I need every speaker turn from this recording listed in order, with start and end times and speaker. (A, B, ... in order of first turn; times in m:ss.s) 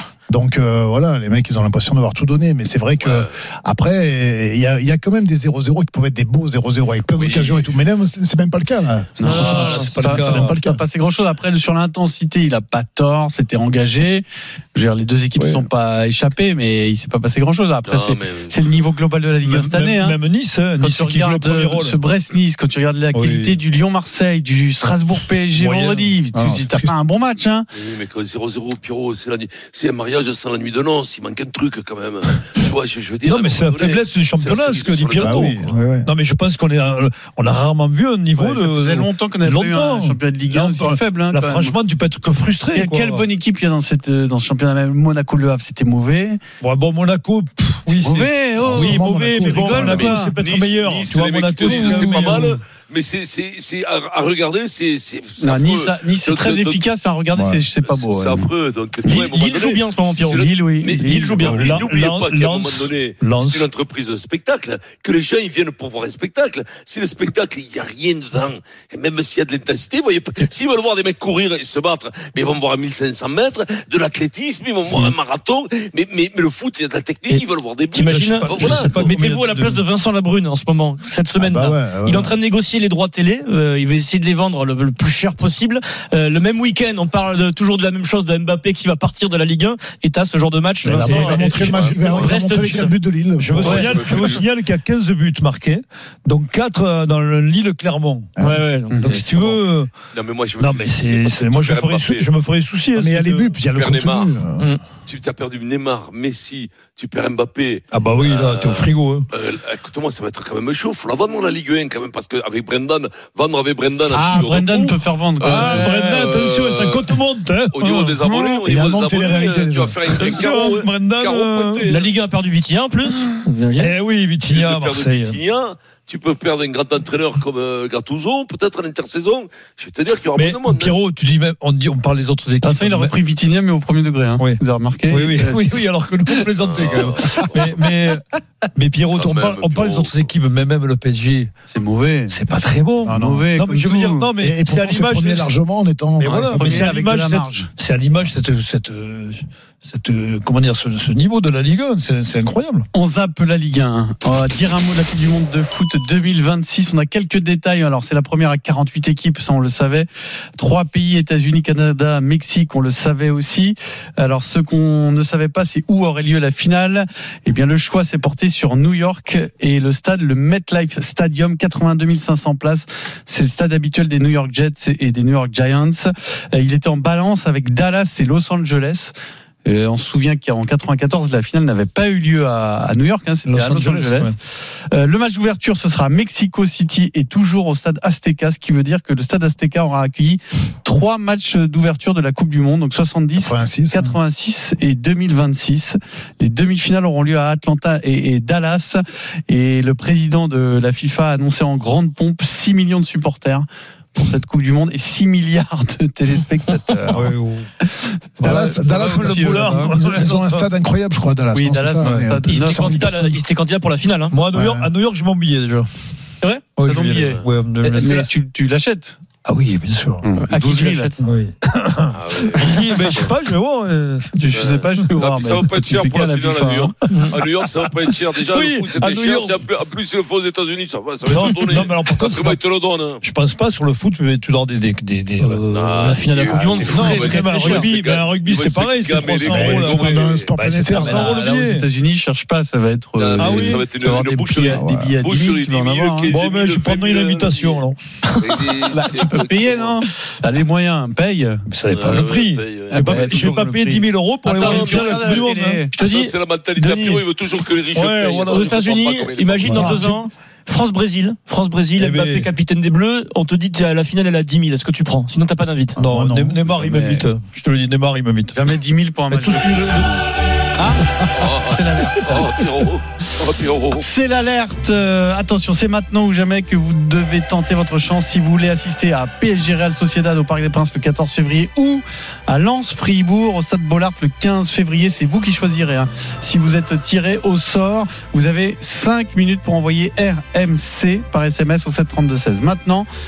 0:00.3-0:09.3 A
0:03.0-0:03.3 B
0:07.1-0:07.8 B
0:09.2-0:20.2 C
0:09.2-0:09.9 D
0:09.3-0:10.6 E
0:10.5-0:10.8 A
0:15.4-0:15.6 E
0:17.9-0:18.6 B
0:19.4-0:22.0 E
0:20.8-0:27.7 C
0:23.1-0:23.6 E
0:25.5-0:26.1 E
0:26.3-0:27.0 A
0:27.7-0:35.8 B
0:33.2-0:43.3 E
0:35.2-0:36.1 A
0:38.3-0:41.8 C
0:42.7-0:46.4 C
0:46.6-0:52.4 E
0:47.9-0:50.4 C
0:48.6-0:49.7 A
0:49.8-0:56.8 B
0:51.6-0:52.6 C
0:55.4-0:58.5 C
0:57.3-0:57.6 A
0:57.8-1:19.2 B
0:59.0-1:01.6 D
1:00.2-1:01.8 C
1:01.5-1:03.6 E
1:17.9-1:33.0 D
1:18.0-1:19.8 E
1:21.4-1:22.4 A
1:30.8-1:34.1 A
1:30.9-1:31.8 E
1:31.6-1:32.3 B
1:33.4-1:38.3 E
1:33.5-1:34.4 B
1:33.6-1:33.9 D
1:38.4-1:38.6 A
1:38.4-1:39.5 D
1:38.9-1:39.2 C
1:39.0-1:39.9 E
1:40.1-1:42.3 B
1:40.6-1:43.5 E
1:42.9-1:44.7 A
1:43.7-1:44.3 B
1:45.0-1:57.1 B
1:47.9-1:49.3 E
1:54.1-1:56.2 C
1:55.4-1:58.2 E
1:57.7-2:02.1 B
1:58.3-2:00.0 A
2:00.2-2:01.9 E
2:01.8-2:03.9 D
2:03.8-2:05.4 E
2:04.5-2:11.0 B
2:10.3-2:13.1 E
2:12.6-2:15.8 C
2:14.4-2:18.2 E
2:16.6-2:17.6 B
2:17.0-2:17.3 C
2:18.8-2:21.5 E
2:19.1-2:20.3 B
2:21.7-2:22.4 C
2:22.3-2:25.5 E
2:23.0-2:24.3 C
2:23.0-2:23.7 A
2:24.4-2:26.9 A
2:26.2-2:32.8 E
2:26.2-2:27.7 C
2:32.9-3:27.3 C
3:03.5-3:04.4 E
3:13.4-3:14.2 A
3:27.1-3:27.7 E
3:27.8-3:29.9 C
3:28.4-3:33.4 A
3:28.4-3:30.7 E
3:31.5-3:33.2 C
3:32.0-3:32.3 E
3:32.4-3:34.4 D
3:34.3-3:35.8 E
3:34.5-3:34.9 A
3:36.4-3:36.7 D
3:36.8-3:38.3 E
3:36.8-3:39.2 C
3:39.4-3:40.3 E
3:40.2-3:41.2 C
3:40.4-3:41.2 D
3:41.2-3:44.3 E
3:42.1-3:43.3 B
3:44.4-3:47.0 C
3:44.5-3:53.2 B
3:47.1-3:47.4 D
3:48.5-3:49.5 E
3:51.3-3:52.6 E
3:53.2-3:55.6 E
3:55.4-3:57.9 D
3:55.7-4:00.5 B
3:56.5-3:57.2 A
3:56.8-4:01.8 E
3:59.4-4:01.4 A
4:00.9-4:06.4 C
4:03.2-4:07.8 B
4:03.4-4:03.8 E
4:04.7-4:05.1 A
4:06.3-4:08.0 E
4:08.4-4:10.0 B
4:08.9-4:11.6 C
4:11.7-4:15.8 E
4:11.9-4:13.6 B
4:12.9-4:15.9 C
4:14.5-4:20.0 B
4:15.9-4:17.2 D
4:18.0-4:26.0 D
4:18.3-4:18.7 E
4:19.7-4:20.0 A
4:19.7-4:20.0 E
4:22.0-4:22.5 E
4:26.0-4:27.0 A
4:26.0-4:28.5 E
4:26.9-4:27.2 C
4:28.5-4:30.1 C
4:29.3-4:30.1 E
4:30.8-4:32.5 C
4:31.3-4:34.0 B
4:34.0-4:53.1 C